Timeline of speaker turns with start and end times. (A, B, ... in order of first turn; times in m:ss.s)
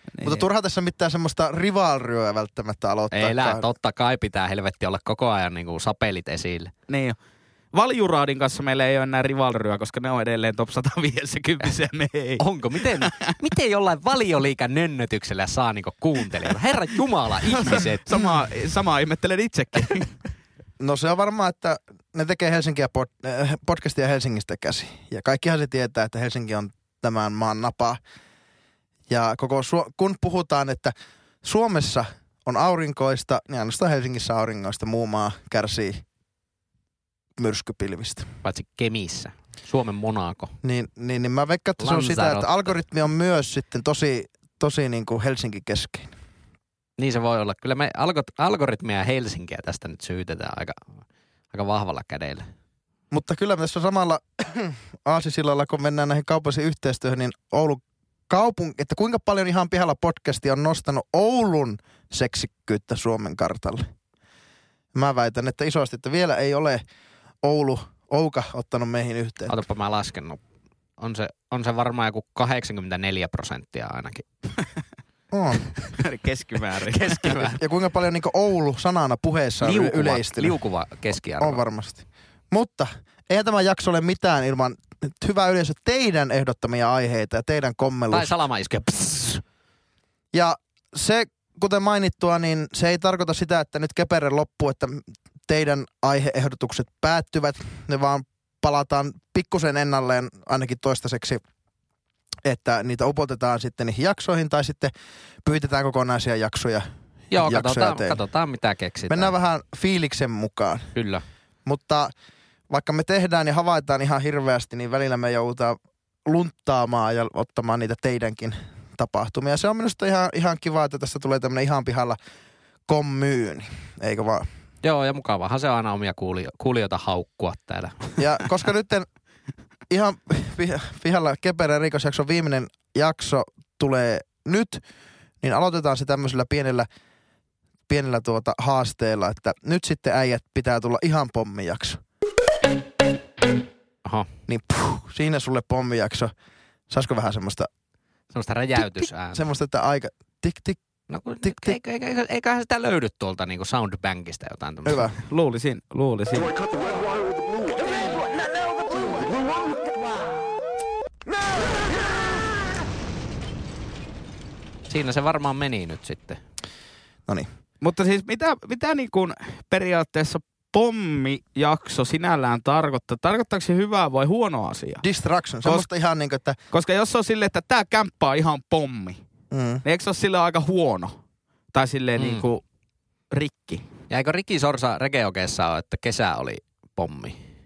0:00.2-0:00.5 A
0:00.2-0:03.7 B
0:03.1-0:06.7 C
0:06.9-0:07.2 A
0:07.7-0:13.3 A
0:12.4-0:18.2 C
0:17.5-0:20.2 A
0:20.8-0:28.0 B
0:29.1-0:36.0 B
0:37.4-0:38.3 B
0:38.4-0:40.5 C
0:40.6-0:46.1 B
0:41.8-0:42.8 C
0:47.0-0:50.8 C
0:51.5-0:52.5 C
0:53.1-1:03.8 B
1:04.9-1:06.8 B
1:07.4-1:09.6 B
1:09.5-1:10.4 C
1:11.0-1:14.3 C
1:15.3-1:15.7 B
1:16.0-1:17.5 A
1:16.9-1:17.6 C
1:17.6-1:20.6 B
1:19.6-1:21.6 C
1:21.4-1:28.3 B
1:28.1-1:29.4 C
1:30.3-1:41.4 B
1:42.4-1:44.9 B
1:45.4-1:46.8 B
1:47.3-1:49.3 C
1:47.4-1:48.2 B
1:49.1-1:50.9 B
1:51.0-1:51.2 C
1:51.7-1:52.1 B
1:52.7-2:02.2 B
2:02.9-2:04.4 B
2:04.8-2:08.2 C
2:08.2-2:09.1 B
2:09.9-2:14.8 B
2:15.4-2:16.9 B
2:17.9-2:22.0 B
2:24.5-2:26.3 B
2:26.9-2:27.7 B
2:28.3-2:29.4 C
2:28.8-2:30.8 B
2:31.1-2:35.1 C
2:31.4-2:31.8 B
2:34.9-2:35.2 B
2:35.2-2:36.6 A
2:44.9-2:46.4 C
2:47.8-2:55.0 A
2:55.0-2:56.6 B
2:56.7-2:59.2 A
2:59.5-2:59.8 B
2:59.8-3:01.2 A
3:01.7-3:02.6 A
3:02.2-3:02.5 C
3:03.3-3:03.8 A
3:04.1-3:07.4 C